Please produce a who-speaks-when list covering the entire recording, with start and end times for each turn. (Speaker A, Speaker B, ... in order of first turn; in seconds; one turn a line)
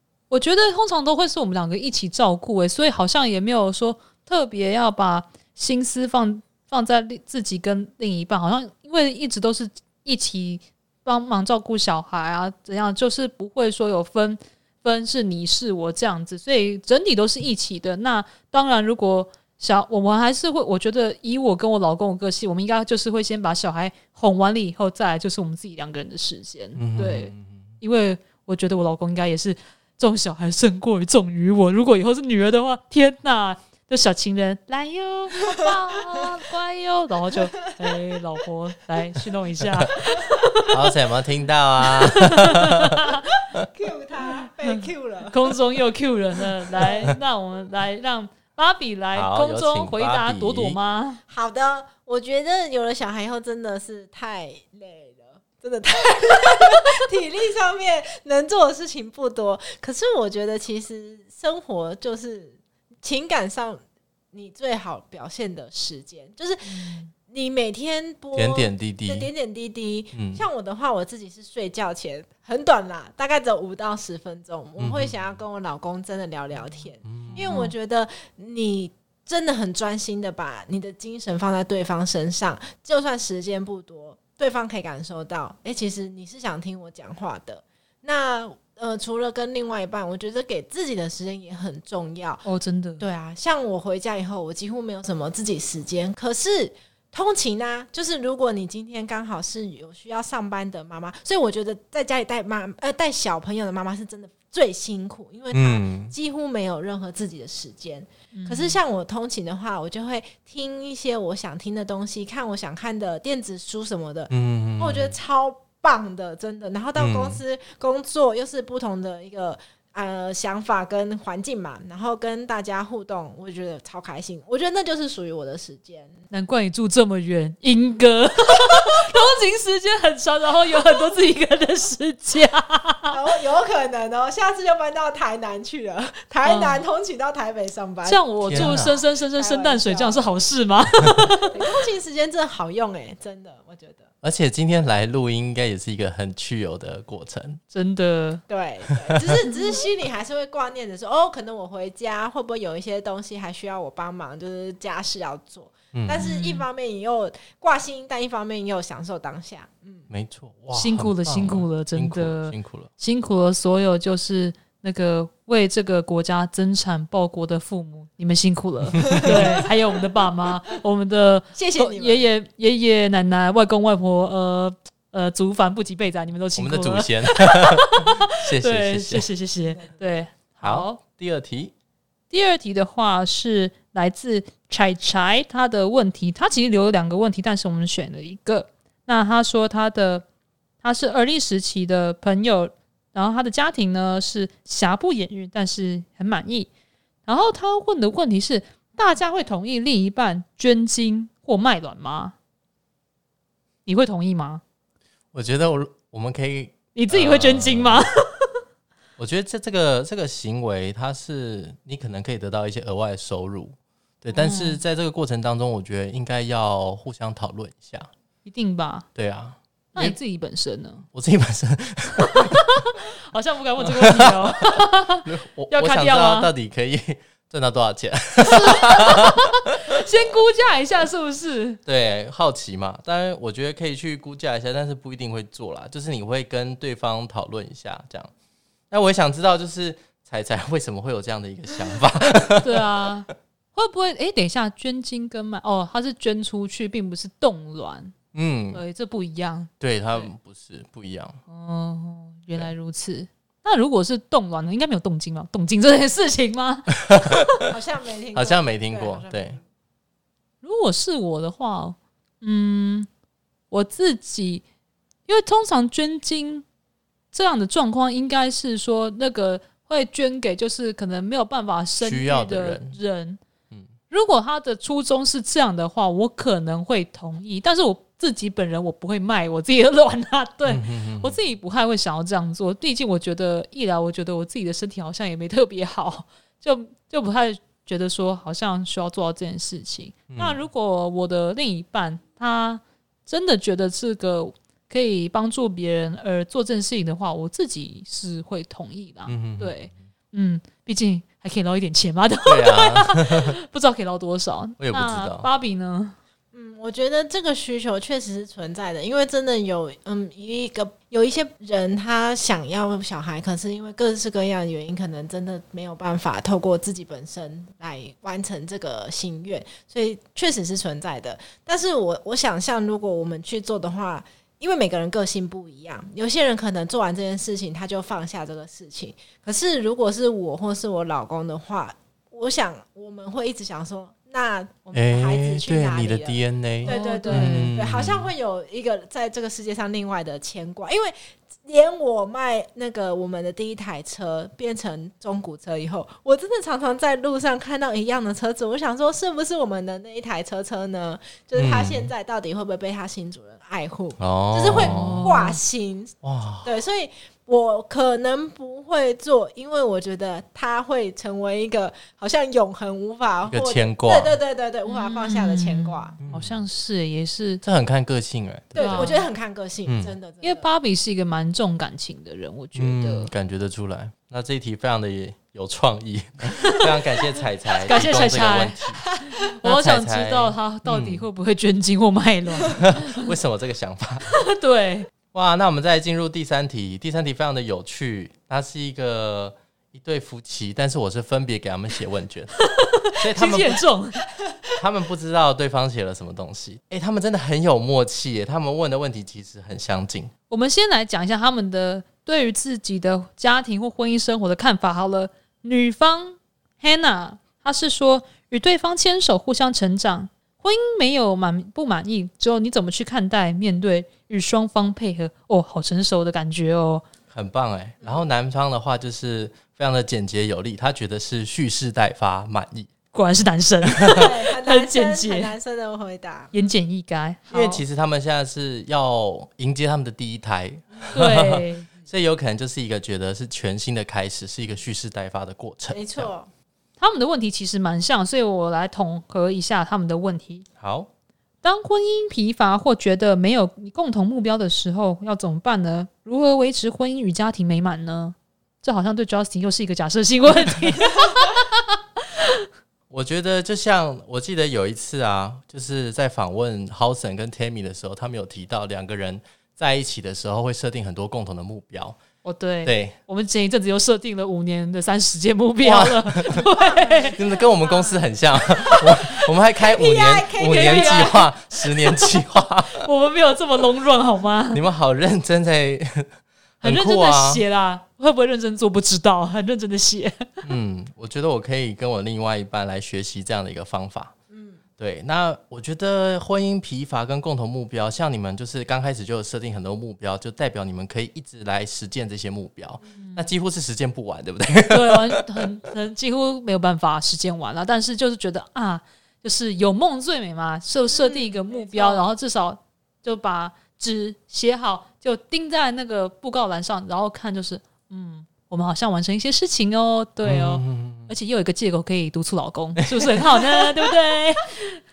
Speaker A: 0.3-40.9
Speaker B: 26.7-27.7
Speaker B: 40.7-43.6
Speaker A: 41.8-43.2
Speaker C: 43.4-45.5
Speaker A: 45.3-51.2
Speaker C: 46.8-47.1
Speaker B: 49.1-50.8
Speaker C: 51.3-63.8
Speaker C: 64.3-92.4
Speaker A: 66.6-67.1
Speaker B: 68.3-69.3
Speaker B: 70.1-70.4
Speaker B: 74.8-75.1
Speaker B: 77.0-77.4
Speaker A: 77.3-77.7
Speaker A: 92.4-93.0
Speaker C: 93.0-126.2
Speaker B: 105.5-106.1
Speaker A: 108.3-108.8
Speaker B: 114.3-115.1
Speaker B: 117.0-117.4
Speaker A: 126.3-133.2
Speaker C: 133.1-140.3
Speaker A: 136.4-136.8
Speaker A: 138.0-141.6
Speaker B: 138.5-138.9
Speaker C: 141.5-144.1
Speaker B: 144.2-147.6
Speaker A: 147.7-148.4
Speaker C: 148.5-160.1
Speaker B: 155.9-156.2
Speaker A: 156.2-156.7
Speaker B: 160.1-162.9
Speaker A: 160.7-181.0
Speaker B: 169.0-169.5
Speaker C: 169.1-169.3
Speaker C: 171.5-172.2
Speaker B: 176.6-179.3
Speaker B: 180.6-181.7
Speaker A: 182.3-190.2
Speaker A: 190.8-196.7
Speaker A: 197.2-202.3
Speaker A: 203.8-204.6
Speaker B: 205.3-208.1
Speaker A: 206.9-208.5
Speaker B: 209.2-218.1
Speaker A: 214.3-214.8
Speaker A: 218.4-219.1
Speaker B: 219.2-220.2
Speaker A: 219.9-221.0
Speaker B: 221.1-222.6
Speaker A: 222.2-226.5
Speaker B: 223.8-229.9
Speaker A: 228.4-231.8
Speaker B: 231.8-238.3
Speaker B: 238.9-242.8
Speaker A: 242.6-248.1
Speaker B: 248.3-248.8
Speaker A: 248.7-250.3
Speaker B: 249.8-251.4
Speaker A: 251.5-257.6
Speaker B: 257.1-257.4
Speaker C: 257.6-259.6
Speaker B: 258.3-259.6
Speaker A: 260.6-263.1
Speaker A: 263.7-264.6
Speaker A: 265.3-266.6
Speaker A: 267.3-273.4
Speaker B: 272.0-273.0
Speaker A: 274.1-306.1
Speaker B: 280.6-281.4
Speaker B: 290.3-290.6
Speaker B: 299.3-300.0
Speaker B: 302.4-303.5
Speaker B: 304.8-305.5
Speaker C: 306.5-366.2
Speaker B: 334.9-338.3
Speaker A: 336.9-337.7
Speaker B: 351.5-352.1
Speaker B: 354.2-355.3
Speaker A: 354.7-355.6
Speaker B: 356.2-356.7
Speaker B: 363.5-364.4
Speaker A: 364.9-367.6
Speaker B: 366.2-366.6
Speaker B: 367.6-369.1
Speaker C: 368.7-370.6
Speaker A: 368.7-369.2
Speaker B: 369.9-370.1
Speaker A: 370.4-373.3
Speaker B: 372.8-379.1
Speaker A: 377.8-383.3
Speaker B: 379.6-381.2
Speaker B: 382.6-384.3
Speaker A: 384.3-385.1
Speaker B: 385.3-392.5
Speaker A: 392.7-394.2
Speaker B: 393.2-393.8
Speaker B: 394.8-400.3
Speaker A: 400.5-417.0
Speaker B: 417.3-422.9
Speaker A: 423.1-425.5
Speaker C: 424.0-426.5
Speaker A: 426.5-427.8
Speaker B: 427.5-436.3
Speaker A: 431.1-431.9
Speaker C: 435.9-436.5
Speaker A: 437.0-440.6
Speaker B: 440.8-441.1
Speaker A: 441.6-452.6
Speaker B: 453.1-462.2
Speaker A: 462.4-467.4
Speaker B: 462.8-463.1
Speaker B: 465.8-466.6
Speaker C: 466.6-471.4
Speaker B: 467.3-473.1
Speaker A: 470.6-472.4
Speaker A: 472.9-474.8
Speaker B: 474.7-476.3
Speaker A: 476.8-480.6
Speaker B: 476.8-477.6
Speaker B: 480.6-484.3
Speaker C: 484.5-484.8
Speaker B: 485.0-495.6
Speaker A: 493.2-493.4
Speaker A: 494.9-515.0
Speaker C: 501.1-502.2
Speaker B: 510.4-511.3
Speaker B: 513.0-513.8